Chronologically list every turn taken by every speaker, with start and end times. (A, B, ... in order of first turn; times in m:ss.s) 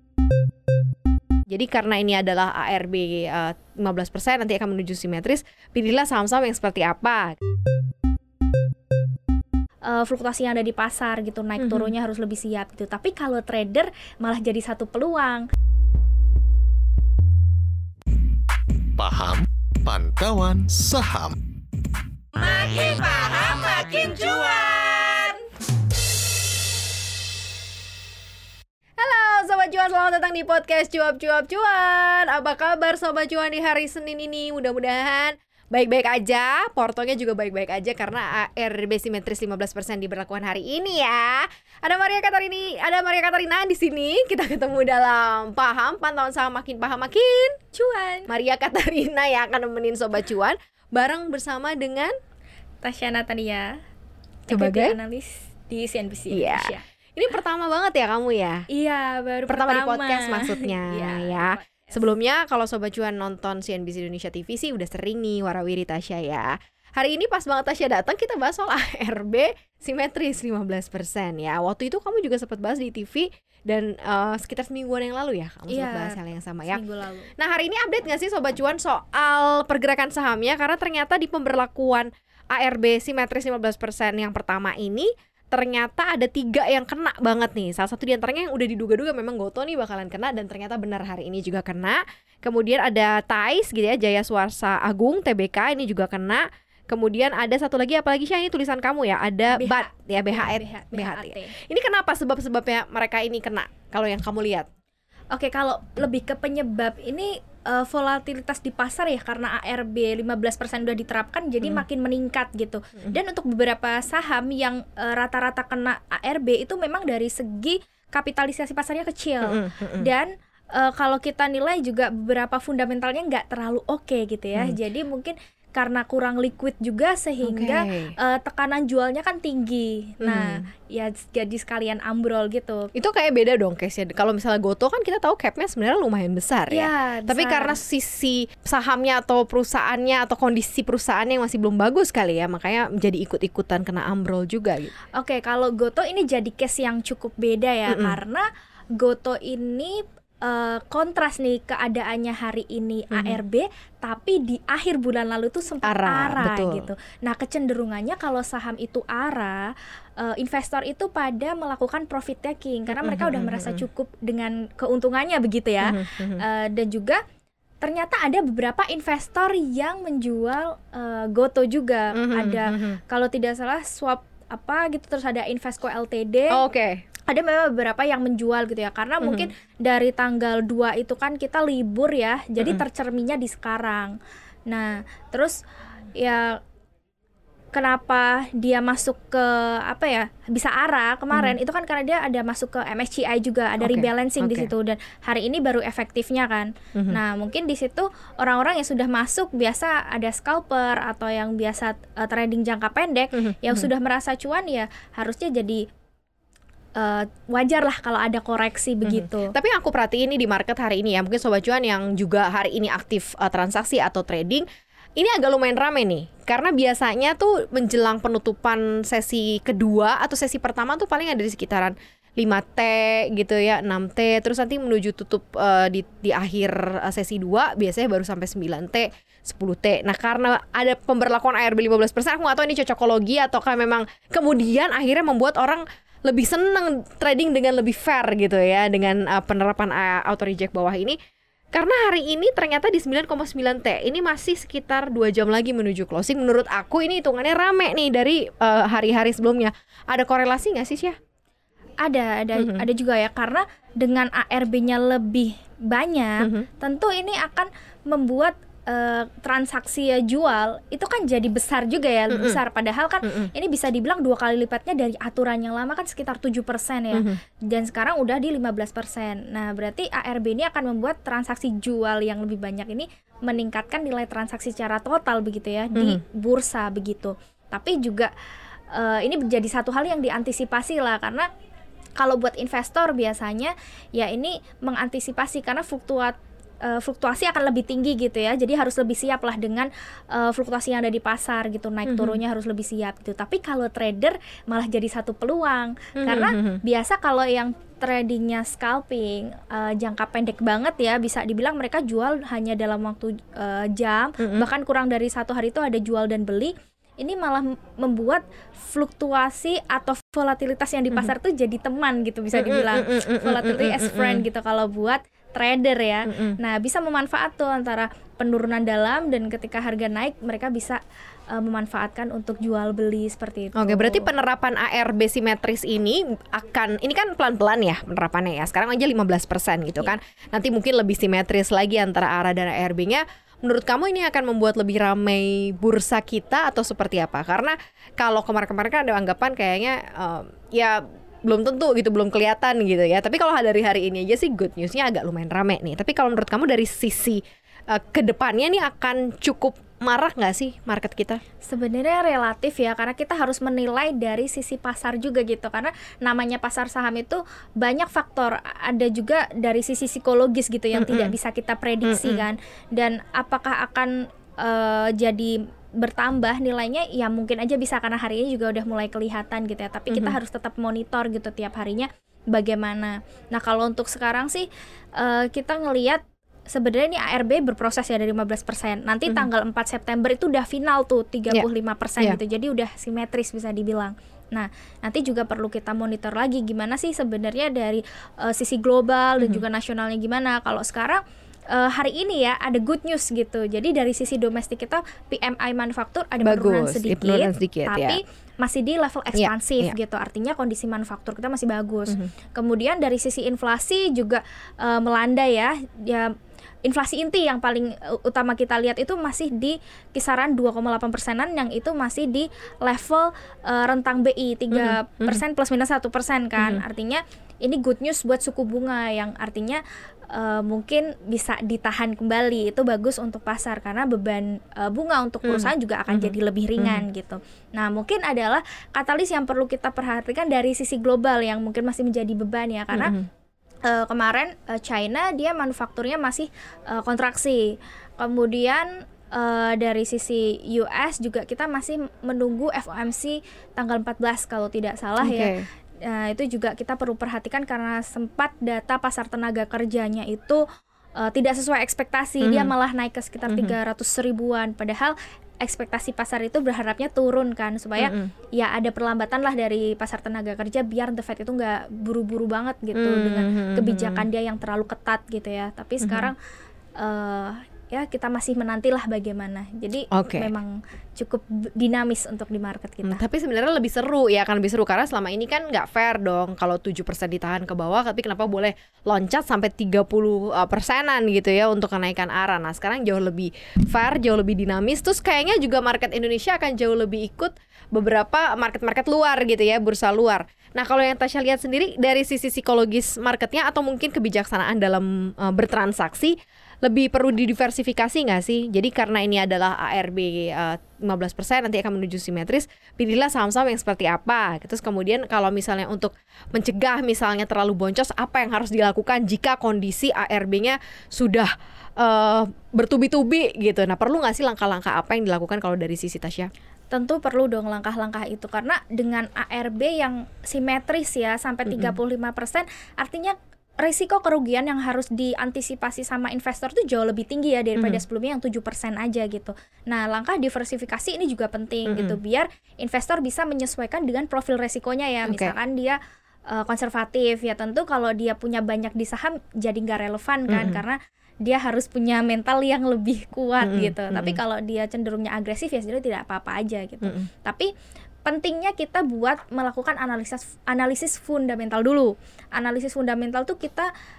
0:01.5-0:07.4 A
0:09.8-0:15.5 B
0:11.6-0:11.9 A
0:19.0-0:21.4 C
0:22.4-0:25.4 A
0:29.0-0:47.6 A
0:47.7-0:48.3 B
0:48.3-0:52.1 A
0:52.8-0:53.8 B
0:54.5-0:55.0 A
0:54.5-0:56.8 B
0:56.3-0:58.7 A
0:58.7-1:02.0 B
0:59.5-1:16.8 A
1:15.7-1:17.3 B
1:17.4-1:44.7 A
1:39.5-1:41.5 B
1:45.3-2:12.9 B
1:59.4-2:00.1 A
2:07.4-2:08.2 A
2:10.2-2:10.6 A
2:12.9-2:24.9 A
2:16.7-2:17.8 B
2:25.1-2:28.4 B
2:27.9-2:28.2 A
2:29.0-2:47.2 B
2:33.1-2:33.4 A
2:35.8-2:36.9 A
2:42.9-2:43.8 A
2:45.8-2:46.4 A
2:47.8-2:56.6 B
2:52.1-2:53.0 A
2:56.5-2:57.0 A
2:57.3-3:04.1 B
2:59.2-2:59.5 A
3:04.7-3:05.6 B
3:06.2-3:06.6 B
3:07.7-3:25.8 B
3:11.3-3:11.6 A
3:13.8-3:14.7 A
3:16.9-3:17.2 A
3:23.4-3:23.9 A
3:27.0-3:29.5 B
3:29.0-3:34.6 A
3:35.2-4:01.2 A
4:01.7-4:11.1 A
4:12.0-4:38.3 B
4:12.6-4:12.8 A
4:16.4-4:16.7 A
4:22.3-4:22.6 A
4:23.2-4:23.5 A
4:27.1-4:27.4 A
4:35.9-4:36.2 A
4:38.9-4:41.5 B
4:42.2-5:21.0 B
4:52.0-4:52.4 A
4:56.2-4:56.8 A
5:04.4-5:04.7 A
5:12.5-5:14.4 A
5:16.2-5:16.6 A
5:21.5-5:24.3 B
5:23.8-5:51.4 A
5:51.6-6:46.3 B
6:00.9-6:01.3 A
6:02.0-6:02.5 A
6:10.1-6:10.4 A
6:36.4-6:38.2 A
6:39.3-6:40.0 A
6:46.8-7:13.1 B
6:54.7-6:55.4 A
6:56.6-6:56.8 A
7:05.4-7:07.0 A
7:12.9-7:13.3 A
7:13.9-7:17.7 B
7:18.2-7:25.5 B
7:25.2-7:25.6 A
7:26.0-7:30.6 B
7:31.2-7:46.4 B
7:32.4-7:32.7 A
7:33.5-7:33.8 A
7:38.0-7:38.3 A
7:42.9-7:44.2 A
7:46.0-7:46.3 A
7:47.0-7:53.2 B
7:50.1-7:50.5 A
7:53.0-8:36.5 A
8:36.9-8:56.0 B
8:41.6-8:42.0 A
8:47.8-8:48.0 A
8:51.9-8:52.2 A
8:55.2-8:55.5 A
8:56.5-9:07.7 B
9:00.5-9:00.8 A
9:03.6-9:04.4 A
9:08.2-9:13.9 B